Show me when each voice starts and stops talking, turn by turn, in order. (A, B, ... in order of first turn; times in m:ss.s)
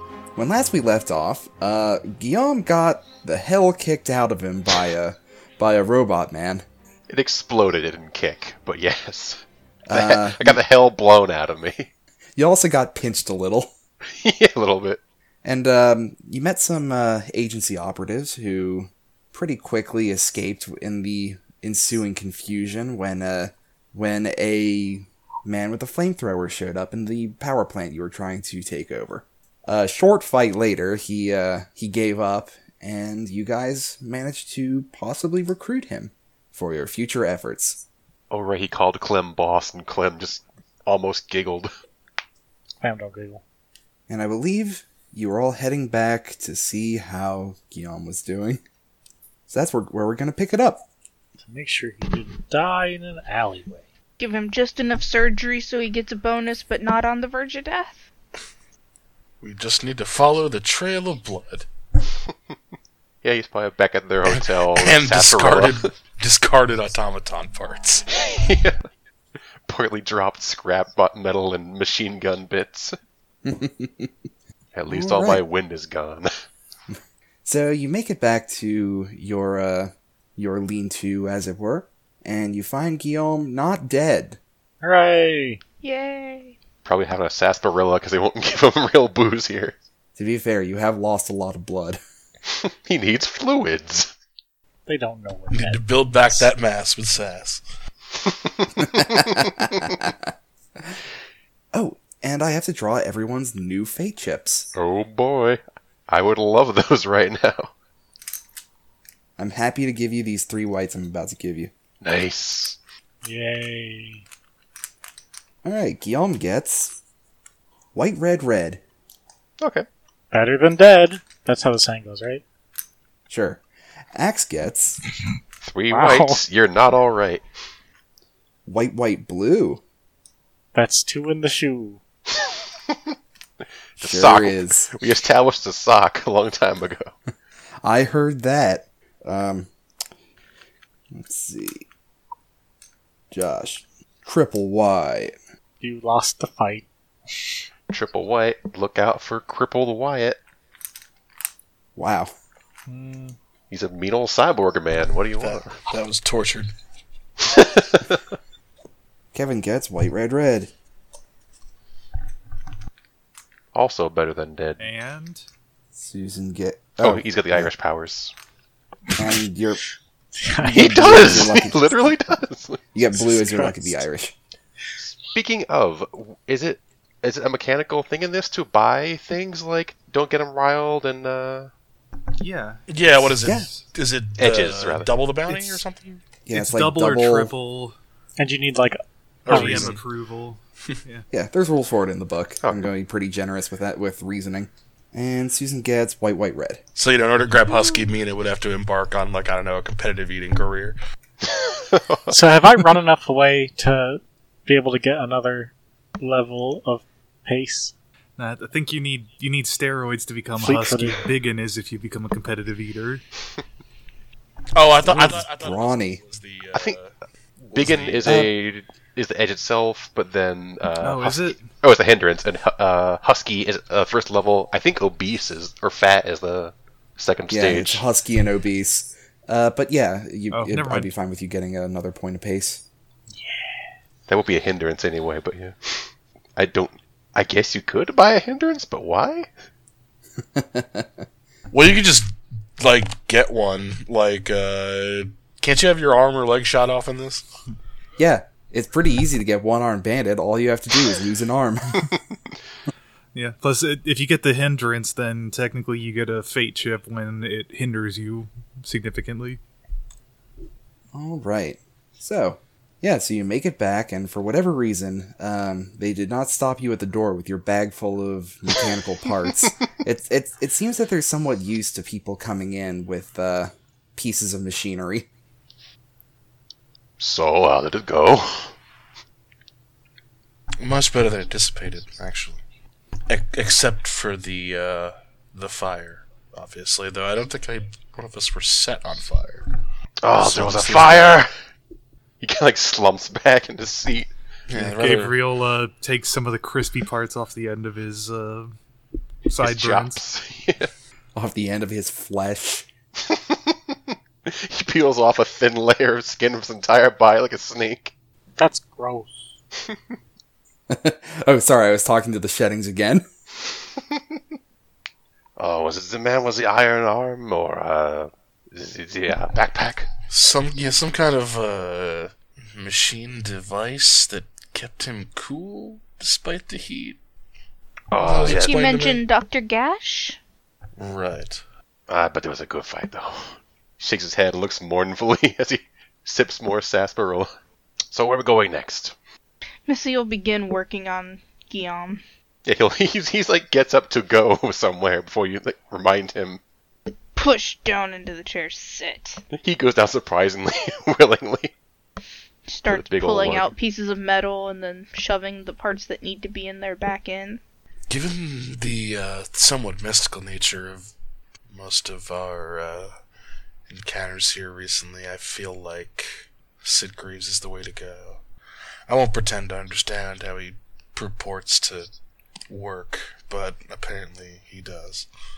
0:00.4-0:06.6 A
0:07.1-0:11.9 B
0:09.8-0:10.6 A
0:12.4-0:13.7 A
0:14.1-0:15.0 B
0:15.4-0:37.8 A
0:38.3-0:41.7 B
0:42.8-0:43.4 C
0:44.1-0:48.6 A
0:49.5-0:50.8 A
0:51.4-0:53.8 C
0:54.2-0:58.0 D
0:59.4-1:01.6 E
1:03.2-1:05.9 B
1:04.2-1:08.1 E
1:08.2-1:08.8 B
1:09.7-1:13.0 B
1:13.4-1:14.1 A
1:14.7-1:16.3 B
1:14.9-1:15.4 A
1:17.4-1:24.4 A
1:24.8-1:25.6 C
1:25.8-1:26.6 D
1:26.8-1:29.8 B
1:30.2-1:32.0 A
1:32.5-1:34.1 B
1:34.9-1:36.5 C
1:35.5-1:37.6 E
1:38.2-1:39.5 B
1:38.8-1:40.3 A
1:41.7-1:44.7 A
1:44.7-1:47.7 B
1:49.4-1:51.7 A
1:52.0-1:52.8 B
1:53.2-1:54.2 C
1:55.6-1:57.0 A
1:57.9-1:58.8 A
1:59.6-1:59.8 B
2:00.3-2:02.4 C
2:03.3-2:03.6 A
2:04.1-2:05.0 A
2:05.6-2:07.4 B
2:05.9-2:06.4 C
2:08.6-2:09.8 A
2:10.7-2:12.0 C
2:12.3-2:13.0 B
2:14.0-2:17.1 B
2:14.0-2:14.9 A
2:17.8-2:19.7 A
2:21.1-2:21.8 A
2:23.3-2:25.4 A
2:25.8-2:27.5 C
2:27.9-2:30.4 B
2:32.0-2:32.3 A
2:32.9-2:33.4 C
2:33.7-2:35.8 B
2:35.4-2:36.7 E
2:37.4-2:38.2 B
2:39.3-2:40.7 A
2:43.7-2:44.8 B
2:44.8-2:45.4 F
2:45.9-2:47.7 A
2:47.0-2:48.3 B
2:49.2-2:49.8 A
2:50.4-2:51.1 C
2:50.6-2:51.9 A
2:50.7-2:52.9 B
2:52.9-2:54.3 A
2:53.2-2:54.0 C
2:55.0-3:01.7 B
3:02.4-3:03.8 F
3:02.9-3:06.2 E
3:03.4-3:03.7 A
3:04.4-3:05.8 B
3:06.4-3:07.5 A
3:06.5-3:07.9 F
3:08.4-3:10.0 C
3:09.4-3:10.0 E
3:09.5-3:11.2 F
3:11.3-3:16.8 A
3:12.6-3:12.9 B
3:17.0-3:21.0 E
3:21.4-3:22.3 B
3:22.3-3:27.9 C
3:28.4-3:33.2 F
3:30.6-3:31.3 C
3:34.7-3:38.4 E
3:35.0-3:36.2 A
3:37.7-3:48.0 B
3:38.2-3:38.5 A
3:41.0-3:41.7 F
3:47.5-3:52.8 A
3:50.5-3:51.1 F
3:53.4-3:53.7 C
3:54.3-3:59.5 B
4:00.5-4:01.2 A
4:01.7-4:07.4 E
4:08.2-4:12.1 A
4:13.3-4:19.6 F
4:21.1-4:35.3 A
4:37.2-4:38.7 B
4:40.8-4:42.6 E
4:43.3-4:49.6 E
4:50.2-4:51.5 B
4:50.4-4:51.4 E
4:52.4-4:54.3 B
4:54.7-4:55.4 E
4:54.7-4:58.7 F
4:59.4-5:00.2 F
4:59.6-5:00.9 B
5:01.3-5:02.8 A
5:03.2-5:08.1 B
5:08.6-5:09.4 C
5:10.9-5:13.3 A
5:15.6-5:20.1 B
5:20.3-5:27.2 E
5:28.1-5:28.8 B
5:28.2-5:29.2 E
5:28.4-5:30.4 D
5:31.0-5:31.6 E
5:32.1-5:37.5 B
5:38.1-5:39.1 B
5:39.9-5:42.2 D
5:42.6-5:46.6 B
5:47.4-5:49.4 D
5:49.5-5:51.7 B
5:52.7-5:57.6 D
5:52.9-5:53.7 B
5:58.1-6:01.1 E
6:01.7-6:03.1 E
6:03.9-6:08.4 E
6:09.1-6:12.1 E
6:12.7-6:15.3 E